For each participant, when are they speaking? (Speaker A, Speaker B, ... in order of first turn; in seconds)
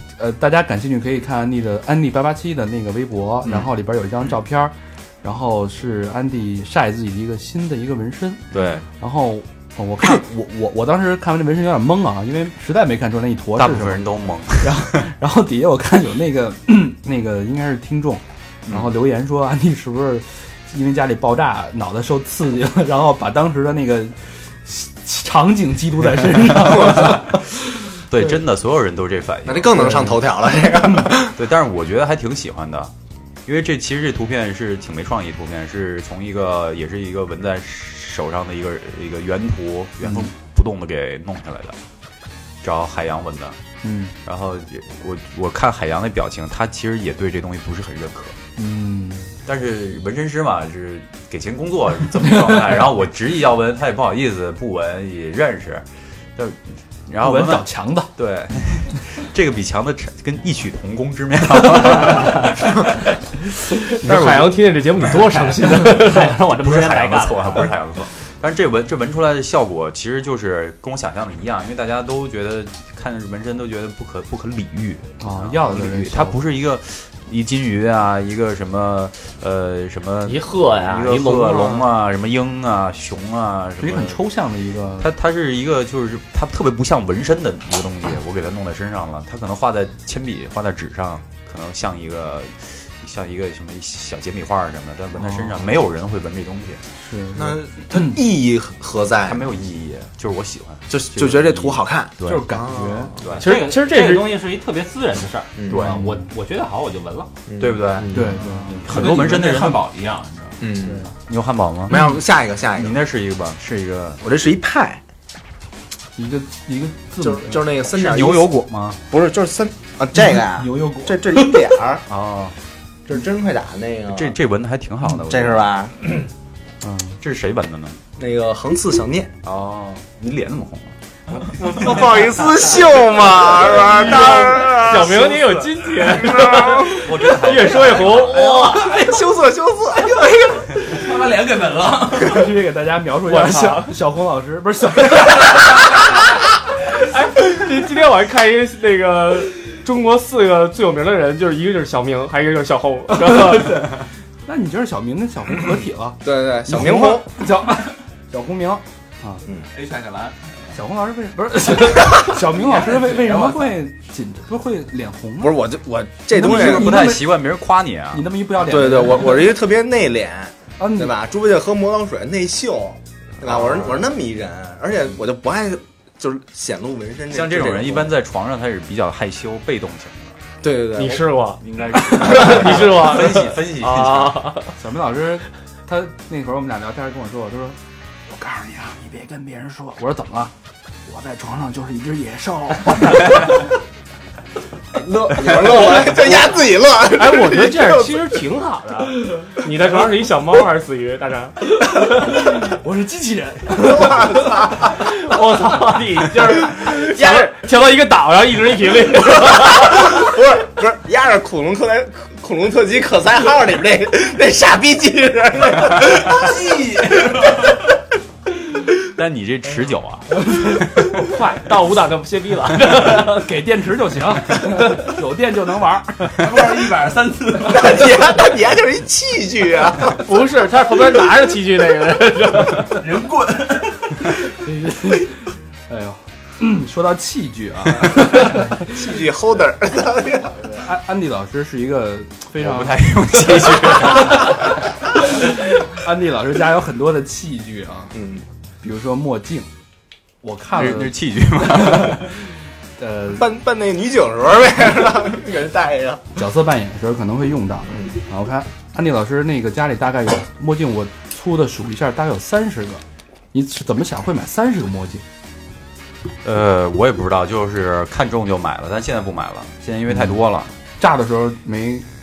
Speaker A: 0.2-28.0, 43.8-44.1, 48.6-49.3, 57.2-58.1, 64.0-64.3, 75.2-76.4, 83.8-85.1, 95.2-95.6, 97.0-98.2, 102.2-103.1, 105.9-106.2, 108.1-109.0, 116.2-117.7, 120.2-121.2, 126.8-127.2, 142.2-145.6, 153.3-153.9, 154.4-159.4, 160.7-165.6, 166.3-167.4, 168.1-169.5, 170.8-171.1, 184.8-187.8, 188.3-190.5, 191.1-193.6, 202.5-204.5, 223.1-226.3, 234.6-235.3, 235.9-238.7, 240.7-243.0, 245.8-248.1, 248.8-249.7, 250.4-252.2, 253.0-253.4, 256.4-265.2, 270.1-270.4, 271.0-272.1
Speaker B: 8.5-8.8, 13.6-15.1, 18.7-18.9, 26.6-27.2, 28.1-30.1, 31.2-32.9, 33.4-41.8, 42.6-43.6, 44.2-48.4, 49.4-62.9, 66.5-84.2, 85.0-96.8, 99.2-102.5, 103.2-103.5, 105.7-106.0, 107.6-108.1, 108.8-109.8, 111.3-112.1, 112.7-114.2, 117.9-119.0, 122.1-122.5, 124.1-125.7, 127.2-128.0, 129.4-130.9, 137.0-138.4, 166.3-168.3, 177.3-180.4, 181.6-184.4, 219.1-220.8, 242.6-244.7, 250.7-252.3, 266.4-270.7
Speaker C: 29.4-31.4, 97.3-99.4, 100.9-103.2, 105.6-105.9, 107.5-107.8, 110.6-111.1, 111.9-113.0, 114.2-115.0, 117.2-118.6, 119.1-122.0, 123.1-124.3, 125.2-126.0, 128.2-129.3, 131.6-137.1, 137.9-141.0, 156.2-157.3, 165.4-167.0, 168.6-178.1, 180.6-181.2, 194.9-198.4, 203.8-204.9, 206.9-207.5, 209.8-216.6, 227.7-230.2, 238.8-240.7, 248.1-248.4, 253.3-256.3
Speaker D: 63.9-66.3, 80.2-81.9, 103.3-104.4, 131.7-132.3, 133.7-138.6, 143.2-143.9, 147.0-153.9, 180.9-184.7, 197.1-201.6, 204.9-210.1, 221.1-223.5, 230.2-233.0
Speaker E: 65.7-67.7, 103.3-107.3
Speaker F: 108.4-110.6, 140.9-142.6, 159.7-160.8, 162.2-163.8, 216.3-217.7, 226.3-228.1, 232.8-234.3